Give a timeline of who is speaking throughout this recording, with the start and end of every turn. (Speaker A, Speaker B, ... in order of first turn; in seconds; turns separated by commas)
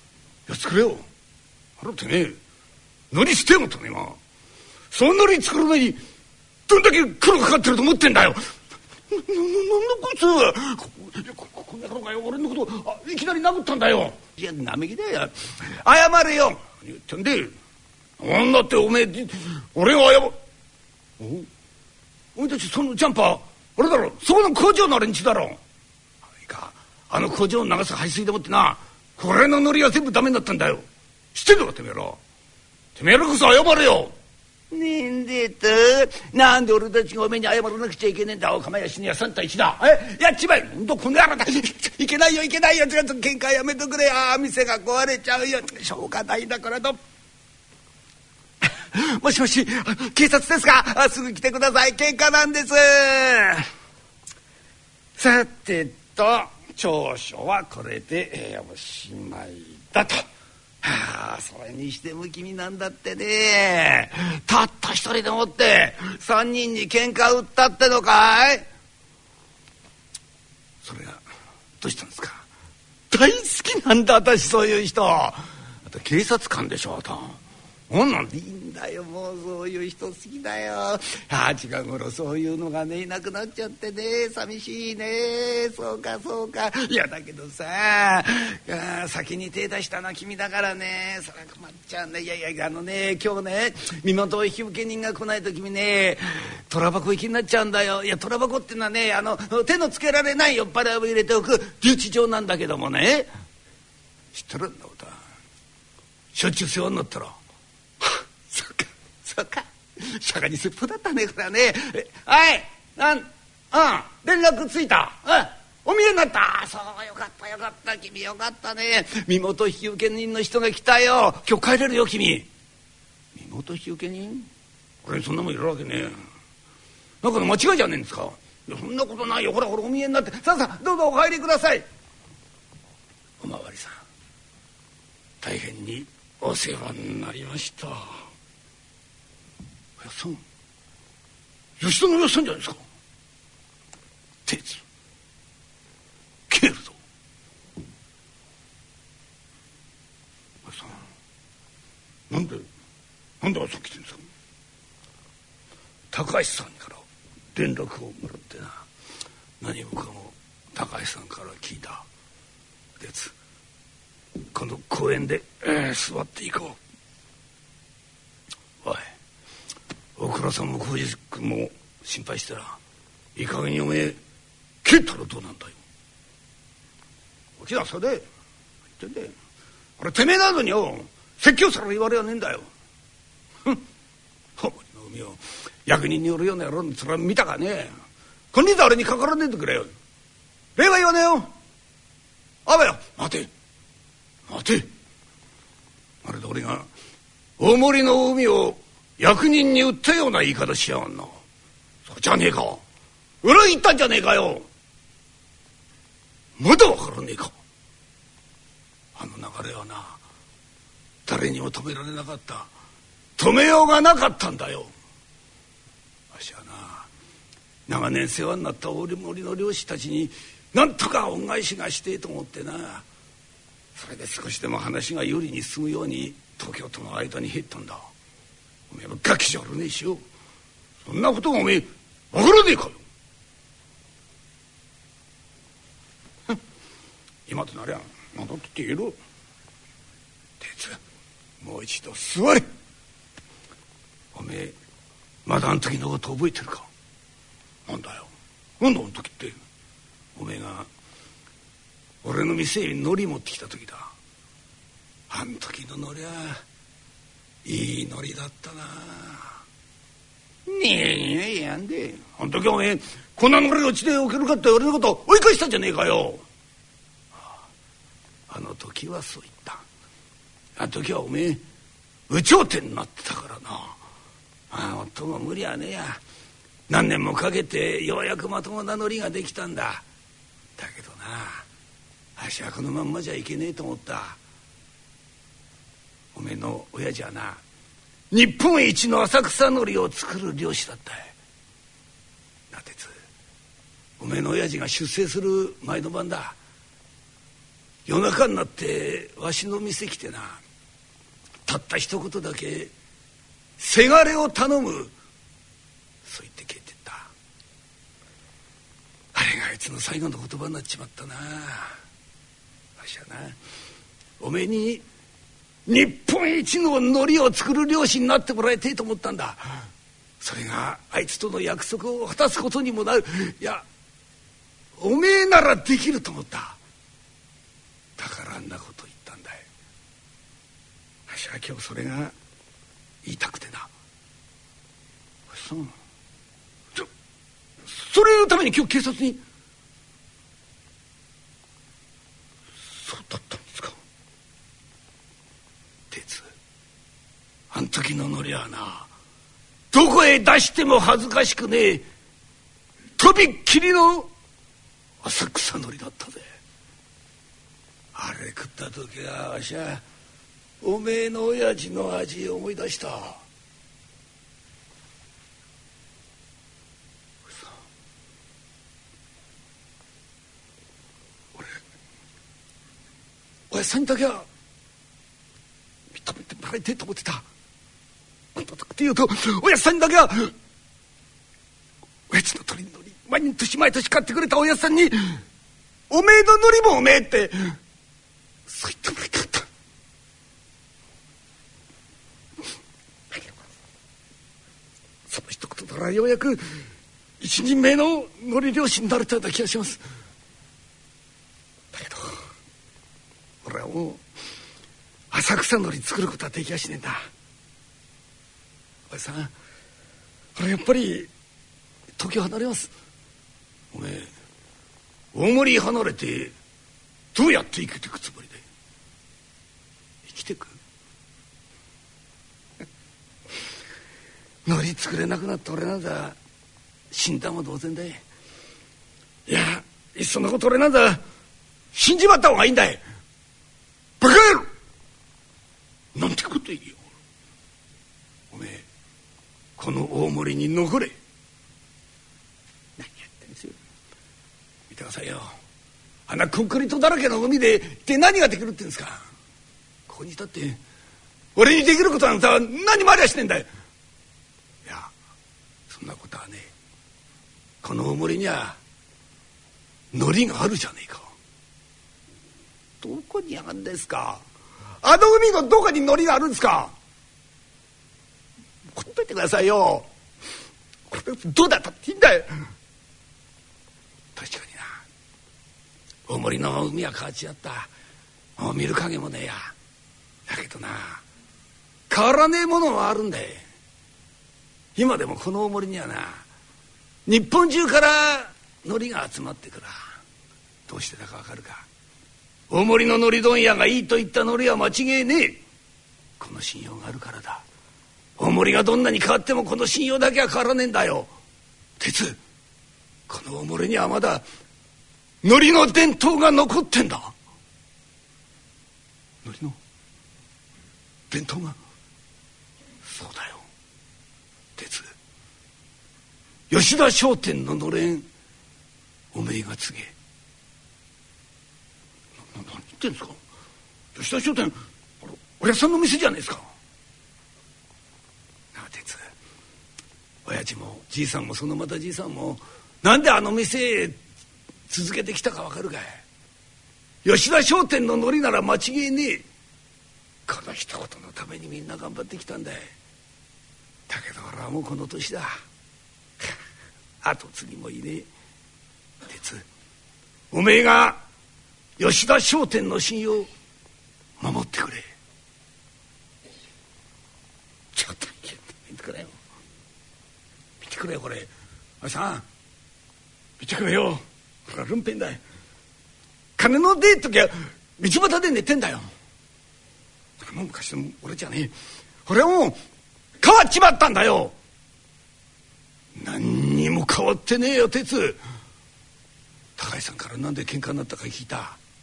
Speaker A: 0.5-1.1, Speaker A: 1.8-2.4, Speaker A: 3.1-4.2, Speaker A: 4.9-6.0, Speaker A: 6.7-8.4, Speaker A: 9.1-17.6, Speaker A: 18.2-20.4, Speaker A: 21.2-21.5, Speaker A: 22.4-25.6, Speaker A: 26.4-32.2, Speaker A: 33.0-34.1, Speaker A: 34.7-47.0, Speaker A: 48.6-53.7, Speaker A: 55.2-60.3, Speaker A: 60.8-68.7, Speaker A: 70.8-71.2, Speaker A: 71.8-72.5, Speaker A: 73.1-103.3, Speaker A: 104.3-105.2, Speaker A: 106.3-107.4, Speaker A: 108.0-122.5, Speaker A: 123.3-124.5, Speaker A: 125.0-126.2, Speaker A: 127.2-131.8, Speaker A: 133.4-134.0, Speaker A: 135.4-138.2, Speaker A: 140.0-140.4, Speaker A: 141.8-142.8, Speaker A: 144.5-144.8, Speaker A: 146.5-147.0, Speaker A: 150.7-151.0, Speaker A: 152.3-152.7, Speaker A: 153.4-154.2, Speaker A: 156.1-158.8, Speaker A: 159.6-162.1, Speaker A: 163.0-163.3, Speaker A: 164.5-166.8, Speaker A: 168.8-169.1, Speaker A: 170.2-172.8, Speaker A: 173.4-174.2, Speaker A: 174.8-175.8, Speaker A: 177.6-178.3, Speaker A: 179.0-179.3, Speaker A: 180.0-182.7, Speaker A: 184.6-187.9, Speaker A: 188.5-189.9, Speaker A: 190.8-191.5, Speaker A: 192.7-193.5, Speaker A: 194.5-194.9, Speaker A: 196.2-196.9, Speaker A: 197.6-201.4, Speaker A: 202.1-202.8, Speaker A: 203.4-204.7, Speaker A: 206.6-207.5, Speaker A: 209.2-210.2, Speaker A: 211.3-212.7, Speaker A: 213.4-214.9, Speaker A: 216.3-217.1, Speaker A: 217.9-223.1, Speaker A: 224.0-228.1, Speaker A: 228.9-230.2, Speaker A: 231.1-233.0, Speaker A: 237.5-239.2, Speaker A: 240.6-241.0, Speaker A: 241.6-242.7, Speaker A: 244.3-244.7, Speaker A: 245.5-246.9, Speaker A: 247.9-249.6, Speaker A: 250.3-250.9, Speaker A: 252.2-254.1, Speaker A: 255.3-256.6, Speaker A: 257.6-259.6, Speaker A: 260.7-266.4, Speaker A: 268.5-269.8, Speaker A: 270.8-271.6, Speaker A: 272.3-274.0, Speaker A: 274.7-276.2, Speaker A: 276.9-280.1, Speaker A: 280.8-281.6, Speaker A: 282.4-284.4, Speaker A: 286.3-287.6, Speaker A: 288.3-291.3, Speaker A: 292.7-293.1, Speaker A: 294.2-296.6, Speaker A: 298.1-300.6, Speaker A: 301.7-302.9, Speaker A: 303.8-305.1, Speaker A: 306.2-307.3, Speaker A: 309.3-312.0, Speaker A: 313.0-313.6, Speaker A: 314.4-315.0, Speaker A: 315.9-319.9, Speaker A: 320.4-323.8, Speaker A: 325.0-326.8, Speaker A: 328.2-329.7, Speaker A: 331.3-332.3, Speaker A: 333.2-333.9, Speaker A: 335.5-335.9, Speaker A: 337.9-339.4, Speaker A: 342.9-344.0, Speaker A: 346.1-346.5, Speaker A: 347.7-349.1, Speaker A: 349.9-352.1, Speaker A: 353.2-354.3, Speaker A: 355.2-356.4, Speaker A: 358.1-360.0, Speaker A: 360.8-363.4, Speaker A: 367.5-367.7, Speaker A: 371.6-371.8, Speaker A: 373.7-374.5, Speaker A: 376.1-377.4, Speaker A: 378.6-380.5, Speaker A: 382.3-385.4, Speaker A: 386.1-387.8, Speaker A: 388.7-389.7, Speaker A: 393.3-393.6, Speaker A: 395.3-396.8, Speaker A: 397.4-400.0, Speaker A: 401.9-402.5, Speaker A: 403.6-404.2, Speaker A: 405.3-407.2, Speaker A: 409.1-409.5, Speaker A: 410.6-411.3, Speaker A: 412.2-412.9, Speaker A: 413.9-414.3, Speaker A: 415.3-416.6, Speaker A: 417.3-418.6, Speaker A: 420.3-420.8, Speaker A: 424.7-426.4, Speaker A: 427.1-428.2, Speaker A: 429.5-431.2, Speaker A: 431.9-433.0, Speaker A: 434.2-434.7, Speaker A: 436.1-437.0, Speaker A: 438.5-438.9, Speaker A: 439.8-441.1, Speaker A: 443.0-443.8, Speaker A: 444.9-445.6, Speaker A: 446.3-449.2, Speaker A: 450.1-450.8, Speaker A: 451.6-453.7, Speaker A: 454.9-455.1, Speaker A: 455.9-456.7, Speaker A: 457.8-458.8, Speaker A: 460.1-461.3, Speaker A: 463.0-464.4, Speaker A: 465.0-466.9, Speaker A: 468.9-470.1, Speaker A: 471.1-472.6, Speaker A: 474.4-475.0, Speaker A: 476.3-477.9, Speaker A: 478.6-479.7, Speaker A: 480.5-481.2, Speaker A: 482.1-483.6, Speaker A: 485.0-486.4, Speaker A: 487.3-490.1, Speaker A: 490.9-491.9, Speaker A: 492.7-495.6, Speaker A: 496.4-497.6, Speaker A: 498.4-501.3, Speaker A: 502.0-502.4, Speaker A: 503.3-504.4, Speaker A: 505.4-507.3, Speaker A: 509.4-509.8, Speaker A: 511.3-511.8, Speaker A: 513.1-513.6, Speaker A: 514.8-515.1, Speaker A: 516.7-518.3, Speaker A: 519.3-520.1, Speaker A: 522.5-523.4, Speaker A: 524.1-526.7, Speaker A: 528.7-529.3, Speaker A: 530.5-534.2, Speaker A: 534.9-536.2, Speaker A: 537.2-539.5, Speaker A: 540.5-542.9, Speaker A: 544.1-545.5, Speaker A: 547.2-548.3, Speaker A: 549.3-549.6, Speaker A: 550.5-551.2, Speaker A: 552.0-553.5, Speaker A: 554.4-555.1, Speaker A: 558.0-559.4, Speaker A: 560.8-562.5, Speaker A: 563.6-565.4, Speaker A: 566.6-569.1, Speaker A: 570.4-571.7, Speaker A: 572.3-572.8, Speaker A: 573.4-574.5, Speaker A: 576.1-578.4, Speaker A: 579.8-581.8